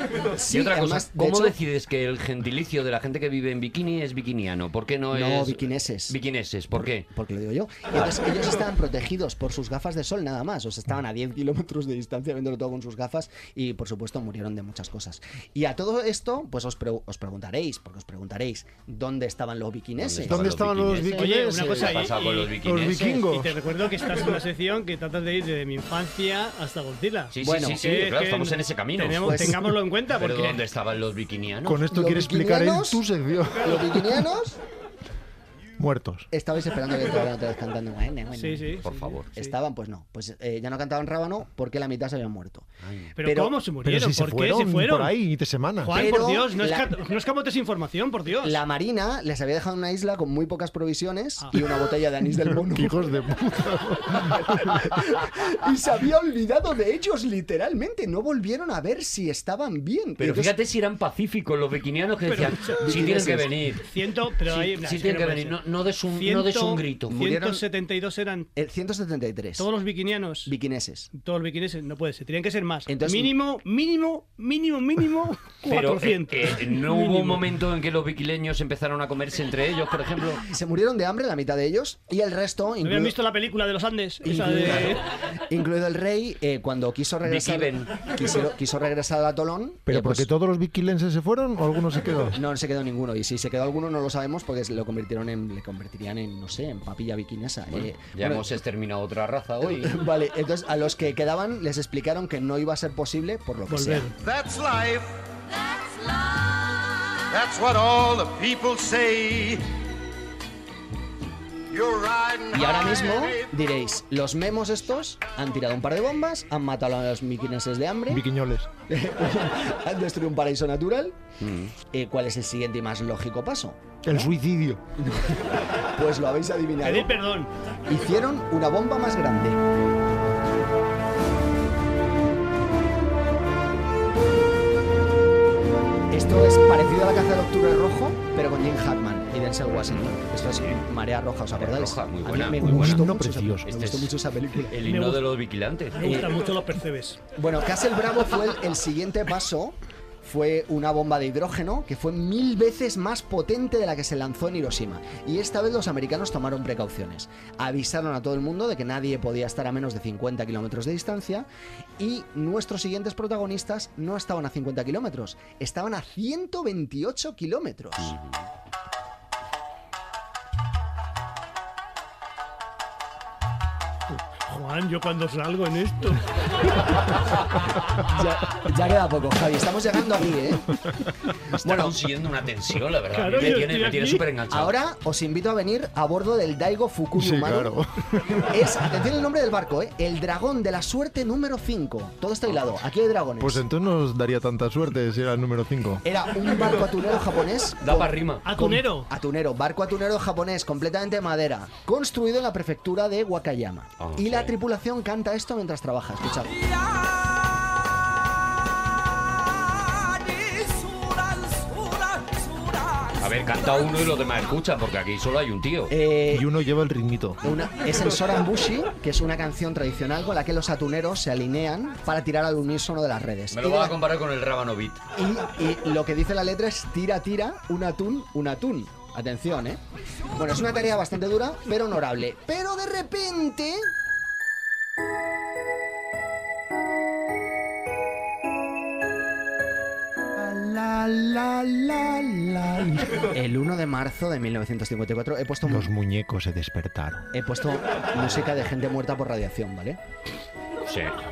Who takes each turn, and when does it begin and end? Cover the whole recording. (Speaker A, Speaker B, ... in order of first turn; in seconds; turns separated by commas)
Speaker A: 0.3-1.6, Speaker B: 0.5-7.1, Speaker A: 5.1-6.2, Speaker A: 6.8-20.4, Speaker B: 20.0-23.1, Speaker C: 20.2-22.1, Speaker D: 21.1-30.6, Speaker C: 22.6-23.6, Speaker B: 27.3-31.8, Speaker A: 27.4-27.8, Speaker A: 29.2-29.8, Speaker C: 31.6-34.3, Speaker A: 31.9-33.0, Speaker A: 33.6-34.6, Speaker C: 35.8-36.3, Speaker A: 36.3-38.8, Speaker D: 38.3-39.5, Speaker B: 38.8-39.3, Speaker A: 39.3-42.7, Speaker B: 42.8-43.1, Speaker D: 43.2-45.1, Speaker A: 43.2-43.6, Speaker C: 43.8-46.1, Speaker D: 45.8-48.6, Speaker A: 45.9-47.0, Speaker A: 48.4-53.0, Speaker C: 52.3-54.8, Speaker A: 54.3-60.5, Speaker B: 60.2-63.8, Speaker D: 62.2-62.9, Speaker A: 62.8-63.6, Speaker D: 63.8-65.6, Speaker B: 64.4-67.1, Speaker D: 66.1-68.5, Speaker A: 67.1-67.6, Speaker A: 68.5-69.7, Speaker D: 69.6-70.5, Speaker A: 70.4-71.1, Speaker D: 71.1-77.4, Speaker A: 72.9-73.3, Speaker B: 75.7-80.4, Speaker A: 80.5-83.1, Speaker D: 82.8-85.0, Speaker A: 84.2-90.3, Speaker B: 87.2-88.1, Speaker C: 89.9-92.4, Speaker A: 92.3-98.5, Speaker B: 97.7-100.0, Speaker A: 99.6-104.1, Speaker D: 103.7-104.1, Speaker E: 104.2-105.1, Speaker E: 107.3-109.6, Speaker E: 111.7-112.6, Speaker A: 112.5-118.2, Speaker C: 118.1-118.7, Speaker A: 118.9-121.2, Speaker B: 121.4-121.7, Speaker A: 121.8-124.3, Speaker C: 124.0-124.8, Speaker A: 125.0-127.1, Speaker D: 126.8-127.5, Speaker A: 127.9-129.6, Speaker A: 136.1-144.8, Speaker B: 139.8-140.1, Speaker B: 141.5-143.0, Speaker C: 142.6-143.7, Speaker B: 143.6-146.0, Speaker D: 144.8-145.2, Speaker D: 145.9-147.2, Speaker A: 146.0-146.4, Speaker A: 147.3-161.5, Speaker A: 162.0-168.2, Speaker B: 168.0-168.4, Speaker D: 174.1-176.2, Speaker A: 178.0-180.8, Speaker A: 181.6-181.9, Speaker B: 181.6-184.7, Speaker D: 183.1-184.2, Speaker A: 184.5-187.7, Speaker C: 187.1-188.6, Speaker A: 188.5-193.6, Speaker C: 193.4-196.0, Speaker A: 196.0-206.6, Speaker B: 197.8-198.4, Speaker D: 198.4-199.1, Speaker B: 204.0-204.5, Speaker B: 213.2-215.9, Speaker A: 215.9-216.5, Speaker C: 216.3-217.5, Speaker A: 217.4-224.0, Speaker B: 223.5-225.0, Speaker A: 225.2-229.8, Speaker A: 230.3-233.9, Speaker A: 240.4-245.9, Speaker C: 245.6-247.3, Speaker A: 247.3-250.0, Speaker B: 250.8-251.2